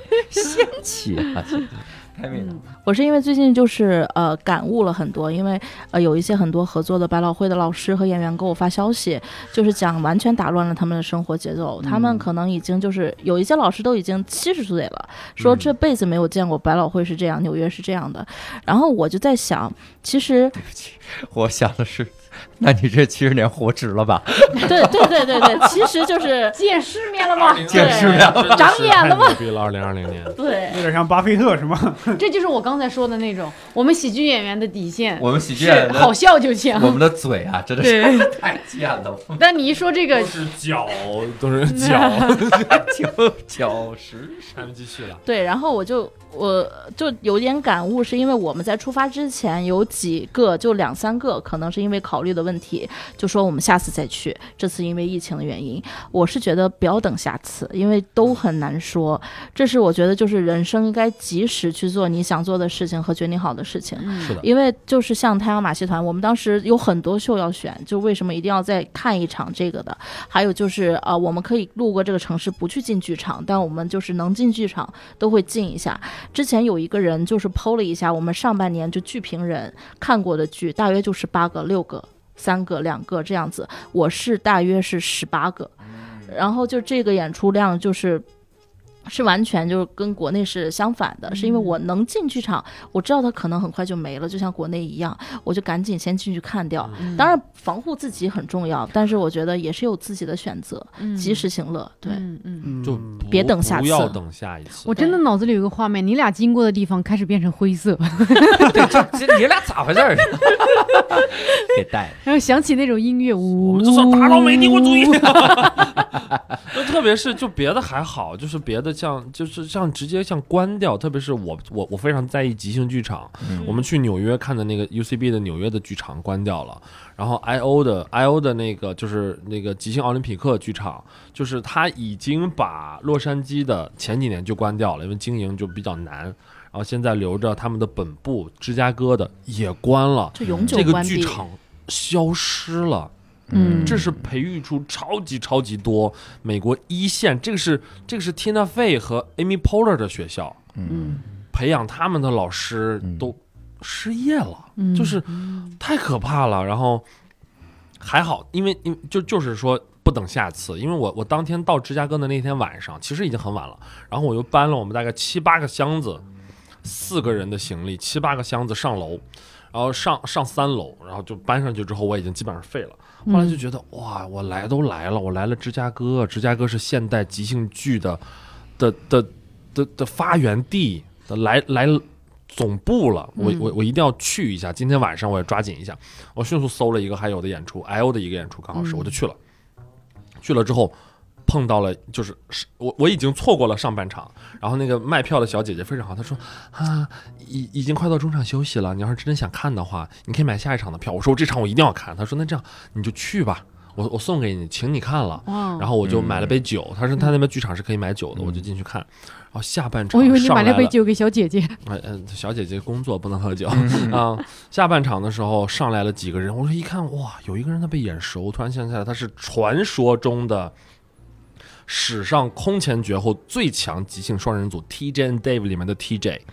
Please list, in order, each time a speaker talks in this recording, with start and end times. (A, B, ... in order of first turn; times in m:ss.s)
0:00.3-0:02.6 A
0:02.8-0:20.6 B
0:11.8-0:12.3 A
0:15.4-0:15.6 C
0:15.4-0:15.7 A
0:20.6-0:25.9 A
0:24.6-0:26.6 B
0:26.5-0:29.4 D
0:27.3-0:30.4 C
0:27.7-0:28.2 B
0:27.7-0:28.7 A
0:30.3-0:30.8 B
0:30.7-0:32.2 E
0:32.2-0:37.0 D
0:35.2-0:39.4 A
0:37.8-0:38.4 D
0:39.4-0:40.4 D
0:40.1-0:42.8 C
0:41.7-0:42.5 D
0:42.5-0:44.6 A
0:44.5-0:45.2 C
0:45.2-1:25.7 B
1:04.0-1:04.4 D
1:25.9-1:26.3 A
1:26.3-1:28.2 B
1:29.0-1:42.2 B
1:31.3-1:31.8 D
1:36.8-1:37.2 C
1:37.0-1:37.4 D
1:41.0-1:41.5 D
1:42.0-1:42.7 D
1:42.6-1:43.2 E
1:42.8-1:45.0 C
1:43.3-1:44.2 B
1:44.9-1:49.1 D
1:44.9-1:45.2 B
1:48.6-1:52.2 A
1:52.2-1:55.8 D
1:53.6-2:23.1 C
2:03.4-2:03.7 A
2:20.3-2:21.4 B
2:20.4-2:21.0 A
2:23.5-2:24.2 A
2:23.5-2:24.0 D
2:23.7-2:30.6 C
2:30.8-2:31.2 A
2:30.8-2:31.2 D
2:31.5-2:37.0 C
2:33.0-2:33.3 A
2:34.8-2:35.7 D
2:38.0-2:46.2 C
2:46.8-2:58.2 C
2:53.3-2:53.6 D
2:58.8-3:09.4 C
3:03.4-3:03.7 D
3:08.7-3:09.1 D
3:10.4-3:10.9 C
3:11.4-3:30.9 C
3:25.4-3:25.9 D
3:26.0-3:26.6 A
3:28.4-3:28.6 A
3:30.1-3:31.8 D
3:31.8-3:40.7 C
3:33.7-3:34.2 A
3:41.9-3:46.4 C